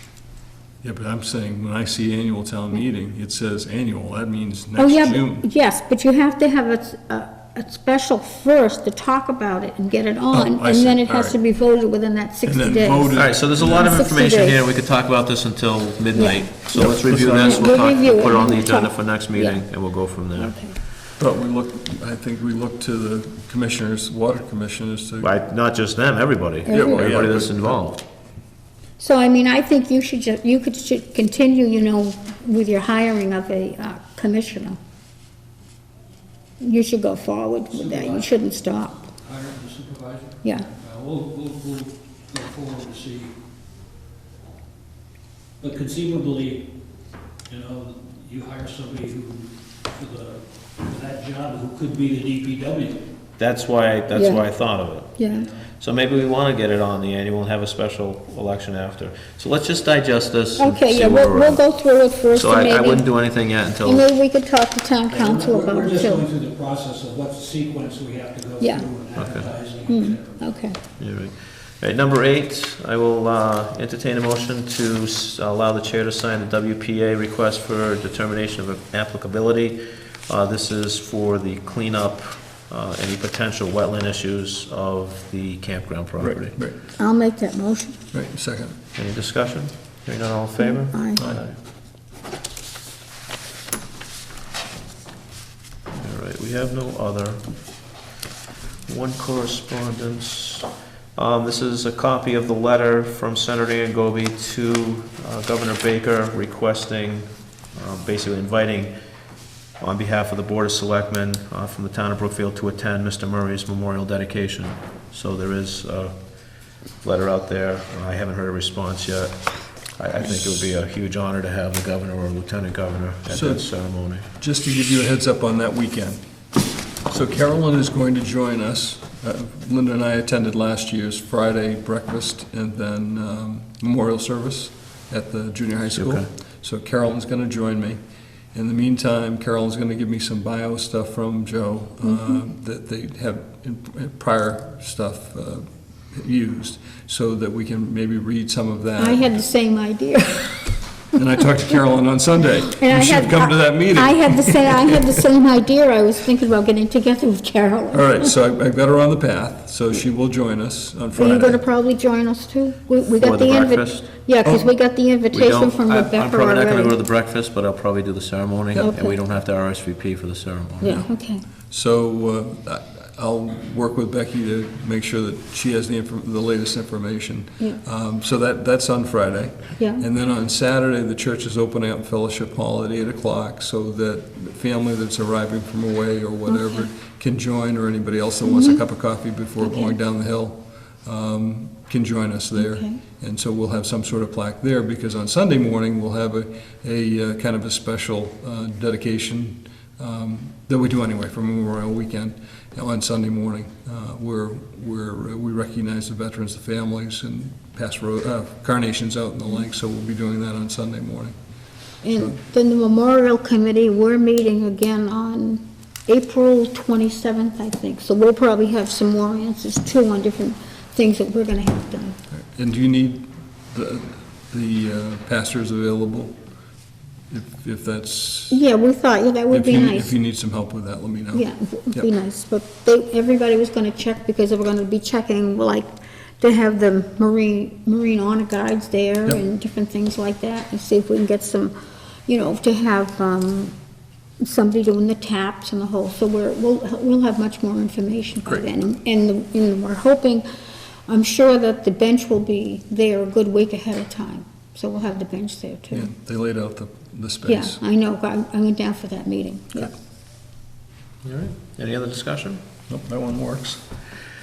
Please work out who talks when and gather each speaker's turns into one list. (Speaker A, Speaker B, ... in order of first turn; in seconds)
Speaker A: 0.8-5.4, 10.3-11.4, 12.4-13.9, 16.7-17.9, 21.2-25.3, 26.7-27.8, 86.2-86.8, 88.1-88.8, 91.2-91.4, 123.3-126.2, 127.1-138.0, 138.5-149.3, 151.1-155.2, 157.9-161.6, 170.8-171.1, 171.7-211.3, 222.3-226.3, 227.3-228.6, 229.5-232.1, 255.9-257.8, 262.9-263.8
Speaker B: 4.8-14.6, 16.1-19.6, 20.3-20.8, 26.6-27.2, 29.0-34.8, 36.6-39.1, 40.4-40.7, 54.1-54.5, 55.2-55.5, 60.6-63.1, 63.8-66.3, 68.6-68.9, 69.9-70.8, 87.0-88.0, 90.6-91.2, 142.0-142.4, 149.0-150.7, 152.7-158.3, 161.1-167.0, 168.8-169.2, 170.8-171.4, 179.8-180.0, 186.4-186.8, 188.4-188.8, 189.6-189.9, 192.6-193.0, 212.0-222.2, 228.5-230.1, 231.3-241.8, 242.3-243.7, 244.4-250.4, 251.1-256.1, 257.4-259.9
Speaker C: 13.1-20.6, 25.2-28.0, 53.4-55.2, 55.8-61.6, 62.3-64.1, 69.1-69.5, 71.0-86.6, 88.9-91.5, 95.9-97.4, 98.8-108.9, 109.8-124.2, 135.9-136.2, 163.2-164.1, 165.3-171.0, 261.2-262.6
Speaker D: 37.7-38.3, 39.2-43.3, 45.6-46.7, 47.5-53.0, 55.3-55.6, 65.1-70.4